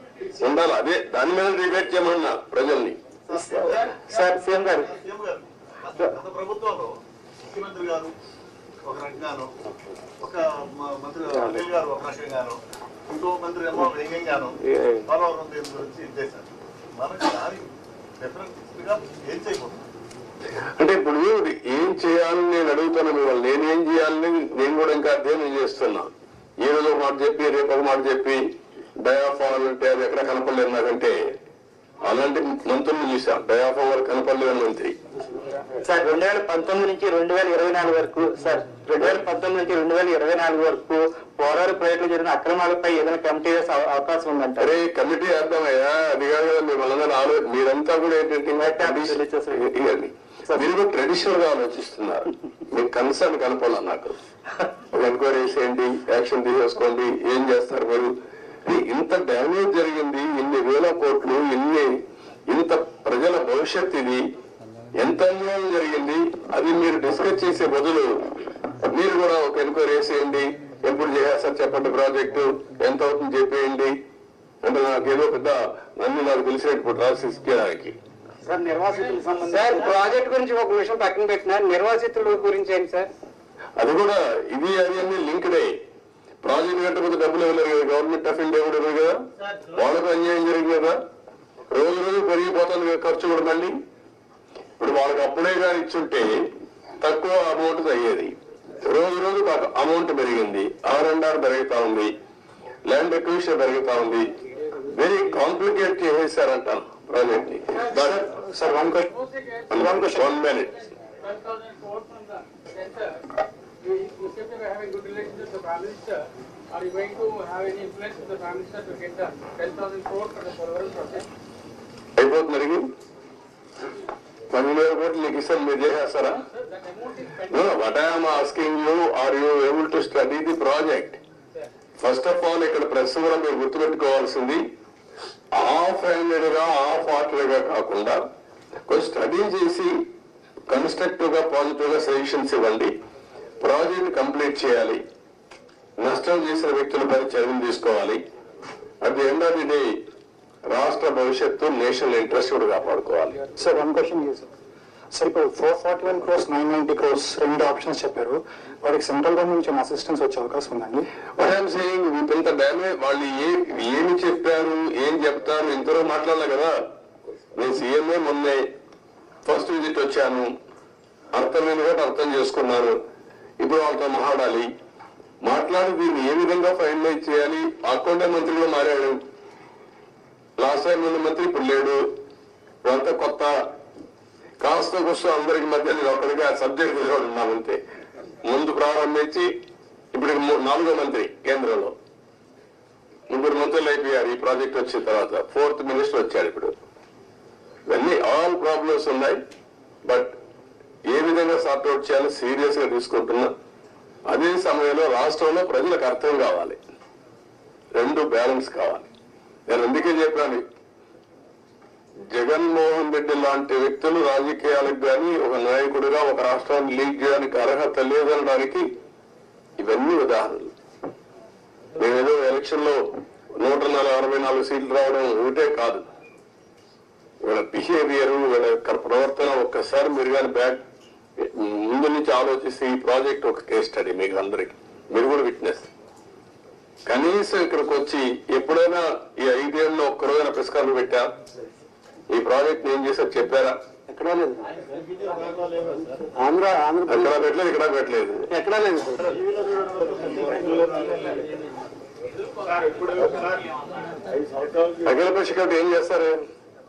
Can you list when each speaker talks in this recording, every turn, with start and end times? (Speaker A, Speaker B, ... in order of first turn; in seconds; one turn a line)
Speaker A: 0.4-3.0
Speaker B: 3.3-4.2
Speaker C: 3.4-4.9
Speaker B: 4.8-6.9
Speaker B: 7.5-8.1
Speaker B: 8.8-9.5
Speaker B: 10.2-19.9
Speaker A: 20.8-26.1
Speaker A: 26.6-28.4
Speaker A: 29.0-31.1
Speaker A: 32.0-35.0
Speaker C: 35.8-44.8
Speaker A: 44.6-54.1
Speaker C: 48.6-49.8
Speaker A: 54.9-58.1
Speaker A: 58.7-61.9
Speaker A: 62.5-64.2
Speaker A: 65.0-68.1
Speaker A: 68.9-73.9
Speaker A: 74.6-78.0
Speaker C: 78.4-83.1
Speaker D: 78.9-80.1
Speaker A: 83.8-85.7
Speaker A: 86.4-89.2
Speaker A: 89.7-91.0
Speaker A: 91.7-93.8
Speaker A: 94.8-96.5
Speaker A: 97.0-102.1
Speaker A: 102.9-104.3
Speaker A: 104.9-108.2
Speaker E: 107.9-109.1
Speaker D: 109.2-109.6
Speaker E: 109.7-110.3
Speaker A: 109.7-110.7
Speaker D: 111.2-113.2
Speaker D: 113.8-121.3
Speaker A: 122.2-122.9
Speaker A: 124.5-126.4
Speaker D: 126.7-127.5
Speaker A: 127.5-131.2
Speaker A: 132.0-134.6
Speaker A: 135.5-138.2
Speaker A: 138.9-139.9
Speaker A: 140.7-142.9
Speaker A: 143.6-145.0
Speaker A: 146.0-148.2
Speaker A: 149.0-150.0
Speaker A: 150.7-153.4
Speaker E: 153.6-154.5
Speaker E: 155.1-161.1
Speaker A: 161.4-166.8
Speaker A: 167.6-168.6
Speaker A: 169.4-170.5
Speaker A: 171.3-173.0
Speaker A: 173.6-174.7
Speaker A: 175.4-179.2
Speaker A: 180.6-182.0
Speaker A: 182.8-183.6
Speaker A: 184.6-187.8
Speaker A: 188.4-189.5
Speaker A: 190.1-191.9
Speaker A: 193.3-196.7
Speaker A: 197.9-199.4
Speaker A: 200.1-200.3
Speaker A: 201.1-203.5
Speaker A: 204.3-206.8
Speaker A: 207.9-209.1
Speaker A: 209.7-210.6
Speaker A: 212.3-218.9
Speaker A: 219.8-220.7
Speaker A: 222.0-223.0
Speaker A: 223.6-226.1
Speaker A: 227.4-230.8
Speaker A: 231.4-235.9
Speaker A: 237.1-241.3
Speaker A: 242.3-243.8
Speaker C: 244.1-244.6
Speaker B: 245.0-246.2
Speaker A: 247.1-248.5
Speaker C: 248.6-249.2
Speaker B: 249.3-251.3
Speaker B: 252.8-253.4
Speaker A: 255.0-256.4